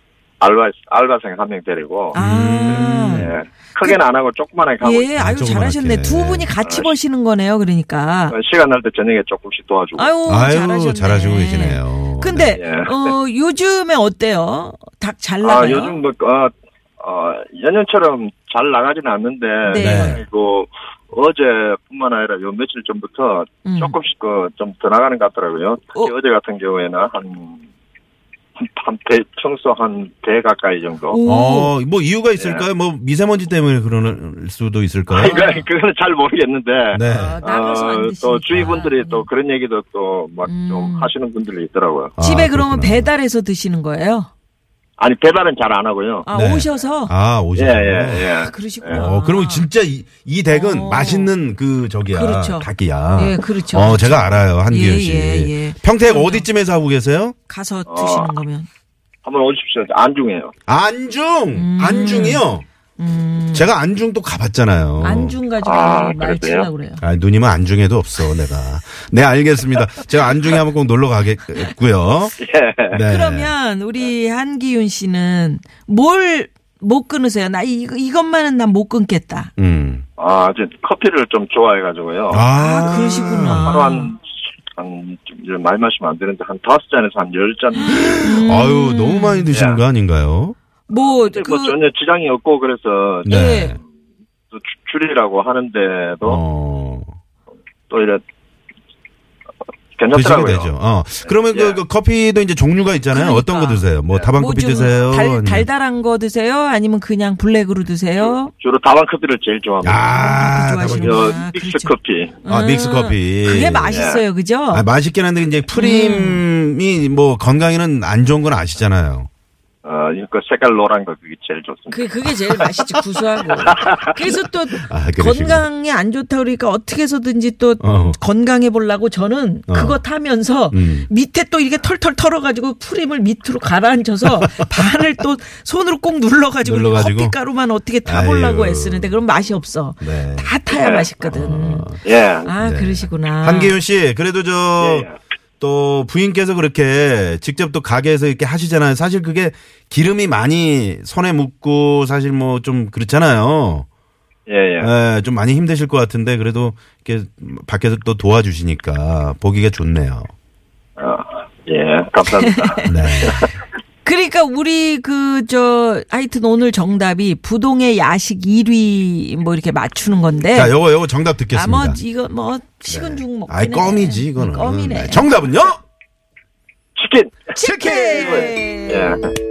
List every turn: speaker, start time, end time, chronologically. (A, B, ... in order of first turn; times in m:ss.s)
0:00.4-0:05.2 A
0:02.1-0:03.3 B
0:02.1-0:03.3 C
0:04.8-0:08.4 B
0:05.2-0:06.5 C
0:06.6-0:06.9 A
0:08.3-0:10.1 A
0:10.0-0:16.0 B
0:10.2-0:12.6 C
0:12.6-0:13.1 A
0:15.4-0:27.6 A
0:19.6-0:20.2 B
0:19.7-0:20.2 C
0:23.6-0:23.9 B
0:28.6-0:31.2 A
0:31.1-0:31.7 B
0:31.2-0:35.5 C
0:32.4-0:32.7 A
0:35.1-0:42.1 A
0:36.9-0:37.4 C
0:37.0-0:39.2 B
0:40.4-0:41.1 B
0:42.2-0:43.1 C
0:42.2-0:44.3 B
0:45.0-0:46.3 A
0:46.2-0:47.1 B
0:46.3-0:48.4 C
0:47.6-0:49.0 A
0:48.3-0:49.7 B
0:48.9-0:57.3 C
0:50.5-0:51.3 B
0:52.1-0:56.5 B
0:57.5-0:58.7 B
0:57.9-0:58.3 A
0:59.2-1:00.5 A
1:00.7-1:02.6 C
1:01.5-1:03.7 B
1:03.5-1:05.4 C
1:05.0-1:07.0 B
1:05.6-1:06.7 A
1:07.0-1:12.4 C
1:12.4-1:13.0 A
1:12.9-1:13.5 C
1:13.0-1:19.5 B
1:19.6-1:20.0 C
1:20.2-1:22.4 A
1:22.3-1:23.8 C
1:22.5-1:24.1 B
1:23.6-1:24.2 A
1:24.8-1:28.2 A
1:27.8-1:29.5 B
1:27.9-1:30.6 C
1:29.5-1:29.8 A
1:30.9-1:31.8 B
1:30.9-1:33.4 A
1:33.2-1:33.8 B
1:33.2-1:33.8 C
1:34.5-1:36.4 A
1:36.2-1:37.1 C
1:37.9-1:38.2 A
1:40.0-1:40.7 A
1:40.1-1:45.7 C
1:41.2-1:41.8 A
1:43.1-1:48.5 B
1:48.2-1:52.4 A
1:49.8-1:51.4 C
1:50.0-1:51.9 B
1:52.4-1:54.9 B
1:52.4-1:54.0 C
1:53.9-1:54.2 A
1:54.7-1:59.3 C
1:55.7-1:56.4 B
1:59.8-2:02.8 A
2:01.9-2:21.9 B
2:03.7-2:04.1 A
2:04.8-2:05.6 C
2:07.8-2:08.2 C
2:09.7-2:10.0 C
2:10.7-2:11.1 C
2:14.2-2:14.8 C
2:16.6-2:17.4 C
2:18.0-2:19.2 C
2:20.0-2:20.6 C
2:20.7-2:21.1 A
2:21.2-2:22.0 C
2:22.0-2:22.5 A
2:22.4-2:23.8 B
2:22.6-2:25.1 C
2:24.8-2:25.1 A
2:25.6-2:33.9 C
2:34.5-2:34.9 A
2:34.8-2:40.3 C
2:41.0-2:43.5 A
2:42.4-2:42.9 B
2:42.8-2:43.4 C
2:44.0-2:50.8 B
2:50.5-2:52.0 C
2:51.5-2:55.3 B
2:52.9-2:55.8 C
2:57.0-2:59.3 A
2:57.5-2:59.2 B
2:57.6-2:58.5 C